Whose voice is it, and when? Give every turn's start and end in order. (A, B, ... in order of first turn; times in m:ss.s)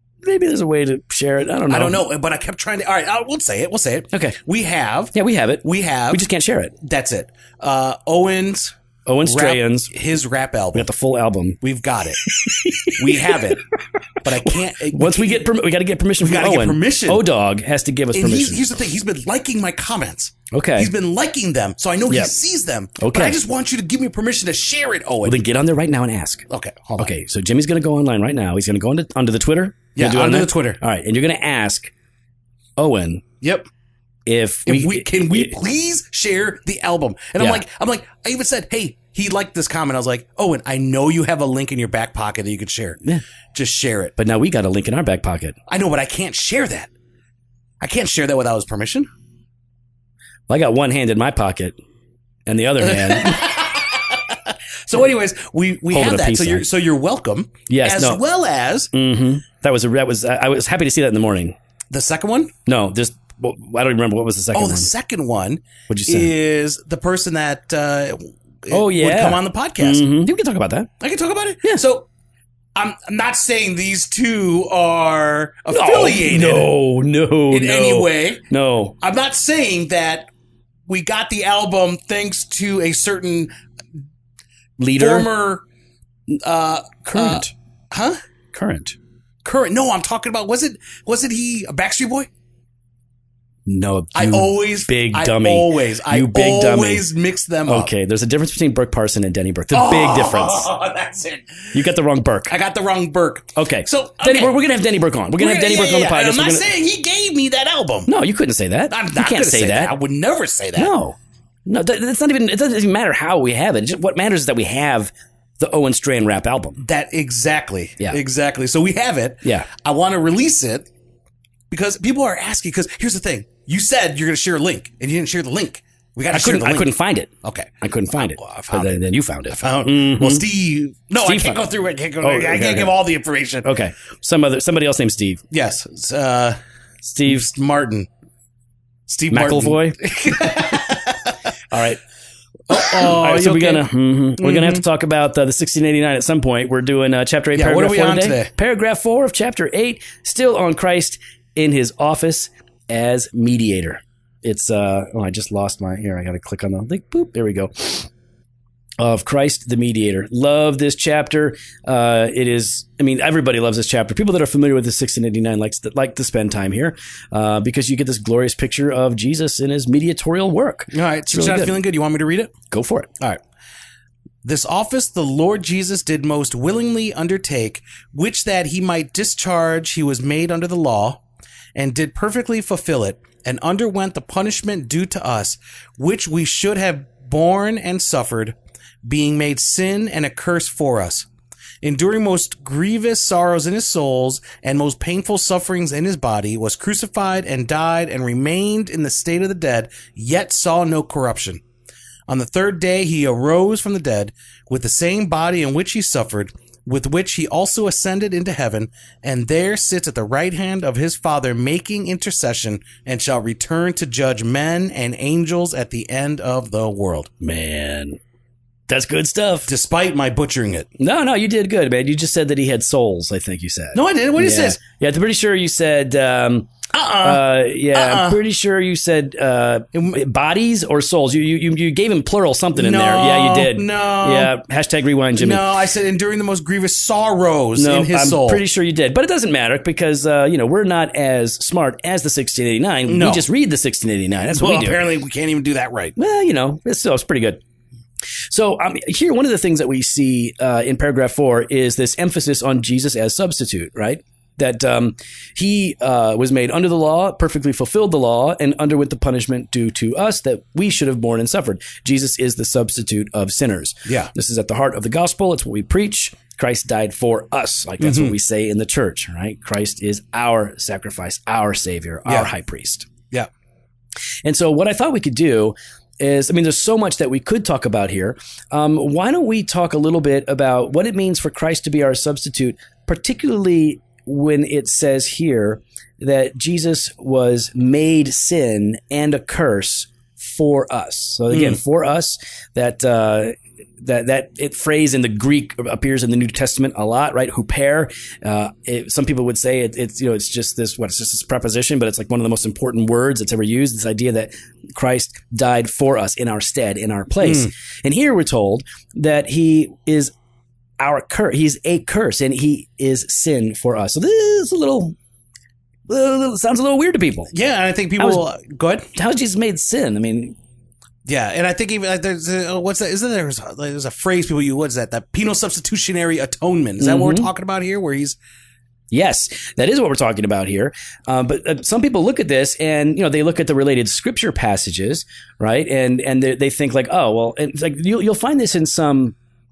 0:00.2-0:02.0 A
0:01.7-0:06.2 B
0:04.1-0:04.4 A
0:05.1-0:06.8 A
0:06.8-0:10.9 B
0:09.1-0:09.9 A
0:10.7-0:11.6 A
0:11.6-0:12.2 B
0:12.2-0:13.5 A
0:12.9-0:13.6 B
0:14.2-0:18.7 A
0:14.2-0:15.5 B
0:16.2-0:17.2 B
0:18.1-0:25.4 B
0:20.5-0:20.9 A
0:23.0-0:23.4 A
0:25.2-0:26.5 A
0:26.5-0:27.1 B
0:27.0-0:31.9 A
0:30.0-0:30.8 B
0:32.8-0:33.3 A
0:33.4-0:33.7 B
0:34.3-0:35.6 A
0:34.7-0:43.0 B
0:43.5-0:44.2 B
0:44.2-0:45.6 A
0:45.7-0:46.9 B
0:47.8-0:49.1 B
0:50.5-0:51.8 A
0:52.5-0:53.7 A
0:52.8-0:58.9 B
0:55.9-0:56.6 A
0:57.7-0:58.2 A
0:58.9-1:01.6 A
1:01.9-1:02.5 B
1:02.7-1:04.9 A
1:04.5-1:10.1 B
1:05.9-1:06.3 A
1:08.7-1:10.9 A
1:11.0-1:12.1 B
1:12.8-1:16.7 B
1:15.7-1:19.0 A
1:17.5-1:18.4 B
1:19.0-1:20.3 B
1:20.9-1:23.5 B
1:24.8-1:25.3 A
1:25.0-1:25.6 B
1:26.3-1:28.2 B
1:27.0-1:27.5 A
1:28.5-1:29.0 A
1:29.4-1:32.3 B
1:33.7-1:37.1 A
1:34.2-1:37.9 B
1:37.7-1:40.7 A
1:39.7-1:41.7 B
1:41.7-1:42.5 A
1:42.5-1:44.6 B
1:43.6-1:46.7 A
1:45.4-1:48.1 B
1:48.1-1:49.9 A
1:48.9-1:50.9 B
1:50.8-1:56.8 A
1:56.8-2:00.9 B
1:59.4-1:59.7 A
2:01.7-2:09.0 B
2:06.3-2:10.4 A
2:09.6-2:13.7 B
2:11.2-2:11.6 A
2:12.2-2:12.9 A
2:13.6-2:15.4 A
2:15.5-2:16.6 B
2:17.0-2:17.5 A
2:17.3-2:18.1 B
2:19.1-2:21.4 B
2:19.3-2:20.8 A
2:21.7-2:22.0 A
2:22.7-2:24.8 B
2:22.7-2:38.1 A
2:27.5-2:28.5 B
2:39.0-2:51.8 A
2:50.9-2:52.5 B
2:52.7-2:53.1 A
2:54.4-3:01.2 B
3:01.8-3:11.3 B
3:11.8-3:21.6 B
3:22.3-3:37.3 B
3:37.4-3:38.2 A
3:38.9-3:39.7 A
3:39.7-3:40.9 B
3:41.0-3:46.7 A
3:43.9-3:44.8 B
3:46.9-3:48.4 B
3:47.2-3:55.6 A
3:49.9-3:50.2 B
3:52.8-3:54.5 B
3:55.4-3:58.6 B
3:57.8-4:05.0 A
4:03.1-4:03.5 B
4:04.6-4:06.2 B
4:06.2-4:07.6 A
4:08.5-4:33.1 A
4:24.1-4:24.3 B
4:28.0-4:28.4 B
4:34.4-5:10.3 A
4:51.5-4:51.8 B
5:07.4-5:07.7 B
5:11.0-5:15.2 A
5:16.1-5:17.5 A
5:17.5-5:19.1 B
5:18.2-5:18.4 A
5:19.1-5:20.6 A
5:21.2-5:28.4 B
5:27.0-5:27.5 A
5:29.1-5:39.4 A